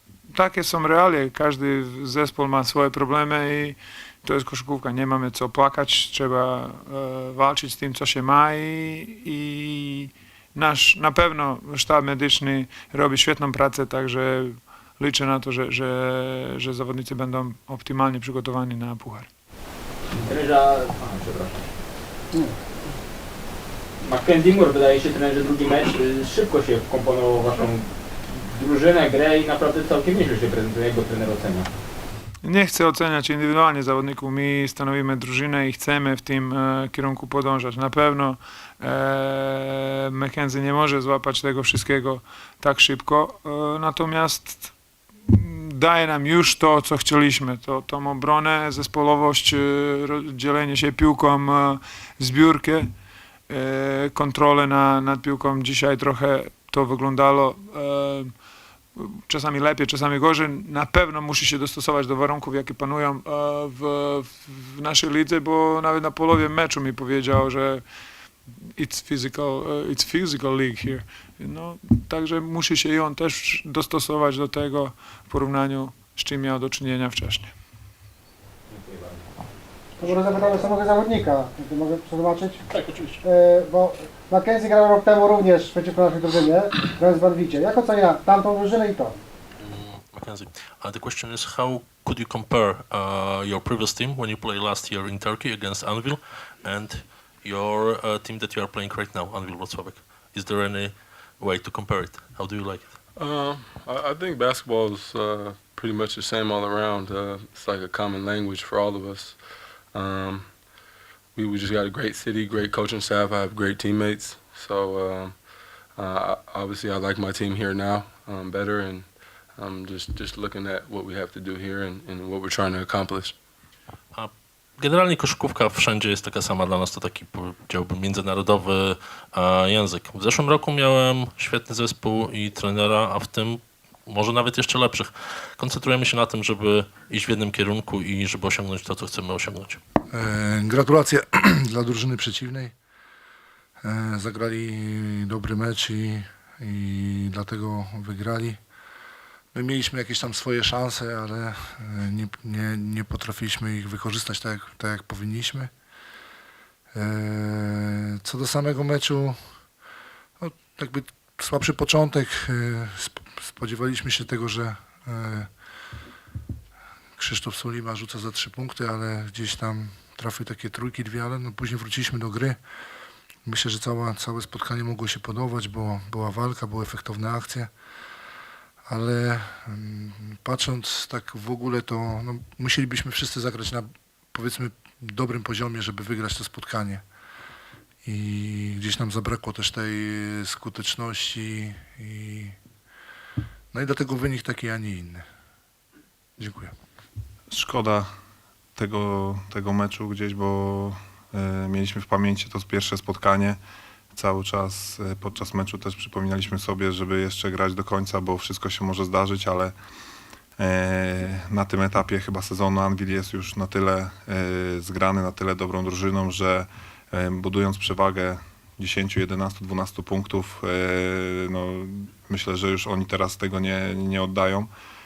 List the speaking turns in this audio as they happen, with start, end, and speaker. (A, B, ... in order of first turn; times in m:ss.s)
0:00.3-0:19.3 A
0:20.1-0:21.7 B
0:24.0-0:31.7 B
0:32.4-0:44.7 A
0:45.2-0:52.9 A
0:53.5-0:58.4 A
0:59.0-1:07.9 A
1:08.6-1:17.5 A
1:20.0-1:20.8 B
1:20.0-1:22.6 C
1:22.7-1:23.2 B
1:23.2-1:29.2 C
1:29.6-1:43.0 D
1:43.1-2:03.4 E
2:04.1-2:19.8 D
2:20.1-2:22.7 F
2:23.8-2:28.6 F
2:29.5-2:35.7 F
2:36.9-2:39.4 F
2:40.4-2:45.5 F
2:47.2-2:52.6 F
2:53.4-2:57.7 F
2:58.9-3:07.0 F
3:08.0-3:12.6 F
3:13.7-3:15.2 F
3:16.4-3:16.7 F
3:17.5-3:18.1 G
3:18.8-3:23.6 G
3:24.1-3:29.7 G
3:30.6-3:44.7 G